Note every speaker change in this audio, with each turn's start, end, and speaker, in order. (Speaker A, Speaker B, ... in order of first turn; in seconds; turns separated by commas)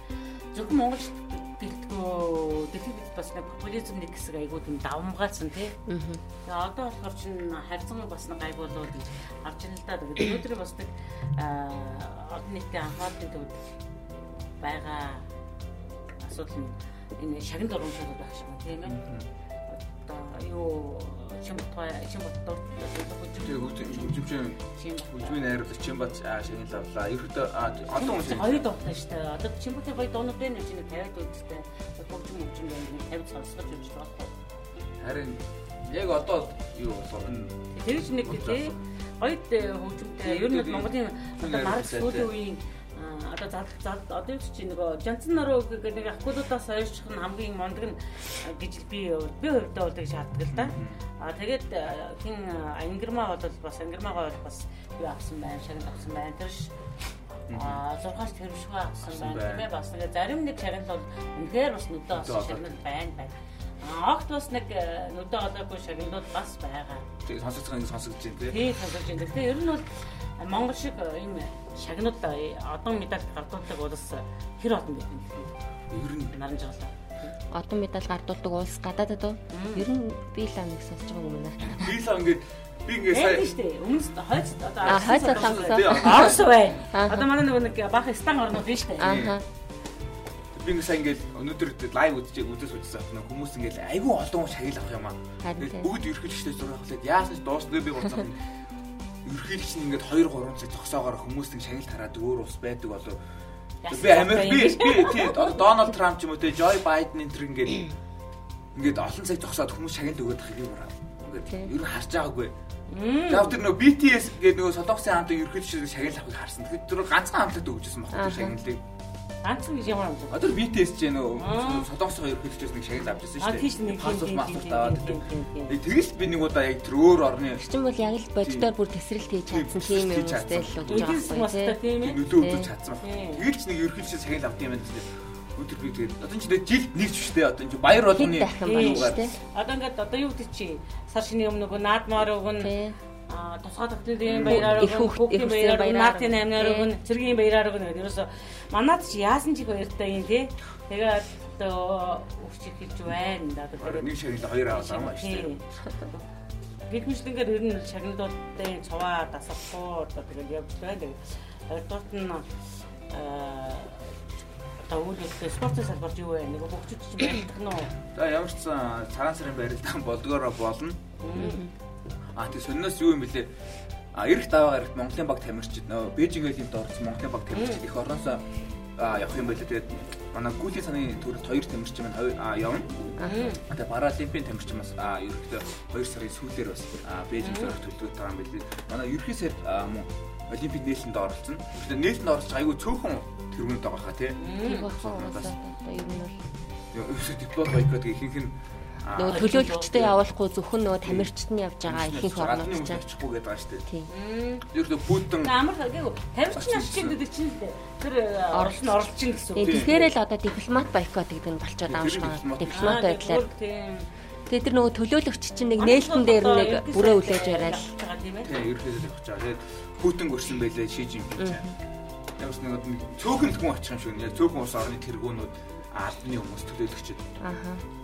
Speaker A: 0.5-5.8, Speaker B: 5.9-6.2, Speaker A: 6.5-13.7, Speaker A: 14.6-15.3, Speaker A: 16.2-19.0, Speaker C: 18.9-19.3, Speaker A: 19.7-24.2, Speaker C: 23.4-28.6, Speaker A: 24.7-25.5, Speaker A: 27.9-34.3, Speaker C: 35.0-38.8, Speaker A: 37.7-56.7, Speaker C: 40.2-42.3, Speaker C: 50.5-51.0, Speaker C: 57.5-57.8, Speaker A: 57.5-67.0, Speaker C: 59.1-59.7, Speaker C: 62.1-62.8, Speaker C: 67.2-68.7, Speaker A: 68.5-75.5, Speaker C: 75.9-76.3, Speaker A: 76.3-77.3, Speaker B: 77.5-81.9, Speaker A: 79.5-79.9, Speaker C: 81.7-83.5, Speaker A: 83.0-89.3, Speaker C: 84.8-86.5, Speaker B: 84.9-86.4, Speaker B: 86.9-87.3, Speaker C: 89.0-89.4, Speaker B: 89.0-89.4, Speaker C: 90.5-98.5, Speaker B: 95.4-95.9, Speaker C: 99.2-103.2, Speaker A: 103.8-105.6, Speaker C: 103.9-107.9, Speaker C: 108.7-112.5, Speaker A: 112.9-113.6, Speaker C: 113.3-118.8, Speaker B: 118.1-118.5, Speaker A: 119.4-120.3, Speaker C: 120.3-127.6, Speaker A: 121.4-121.9, Speaker A: 123.4-125.8, Speaker B: 127.5-131.8, Speaker C: 128.4-128.7, Speaker C: 129.5-131.3, Speaker A: 130.9-132.2, Speaker C: 131.9-139.2, Speaker B: 132.3-132.7, Speaker A: 133.0-133.4, Speaker B: 138.0-139.3, Speaker A: 138.6-142.7, Speaker B: 142.6-143.0, Speaker A: 143.3-154.2, Speaker C: 144.2-144.9, Speaker B: 144.4-146.9, Speaker C: 153.8-155.6, Speaker A: 154.7-156.2, Speaker A: 156.8-164.2, Speaker A: 164.8-167.9, Speaker C: 168.1-171.0, Speaker A: 171.2-171.7, Speaker B: 171.3-171.7, Speaker C: 172.3-173.5, Speaker C: 174.1-178.4, Speaker A: 177.5-177.8, Speaker C: 179.0-194.4, Speaker B: 183.2-183.5, Speaker A: 183.2-183.6, Speaker A: 187.4-187.7, Speaker A: 194.4-194.9, Speaker B: 194.6-196.4, Speaker C: 194.9-195.5, Speaker C: 196.9-200.1, Speaker B: 199.1-203.0, Speaker A: 199.3-200.1, Speaker C: 201.0-201.3, Speaker C: 201.8-203.8, Speaker A: 204.1-204.7, Speaker C: 204.7-205.5, Speaker A: 205.4-210.1, Speaker C: 206.5-207.2, Speaker B: 208.5-209.0, Speaker B: 209.5-213.4, Speaker C: 209.6-209.9, Speaker C: 211.9-213.0, Speaker A: 212.7-214.1, Speaker B: 214.5-217.9, Speaker A: 215.8-218.5, Speaker C: 218.4-221.7, Speaker B: 221.4-221.7, Speaker C: 222.4-227.4, Speaker B: 227.4-227.8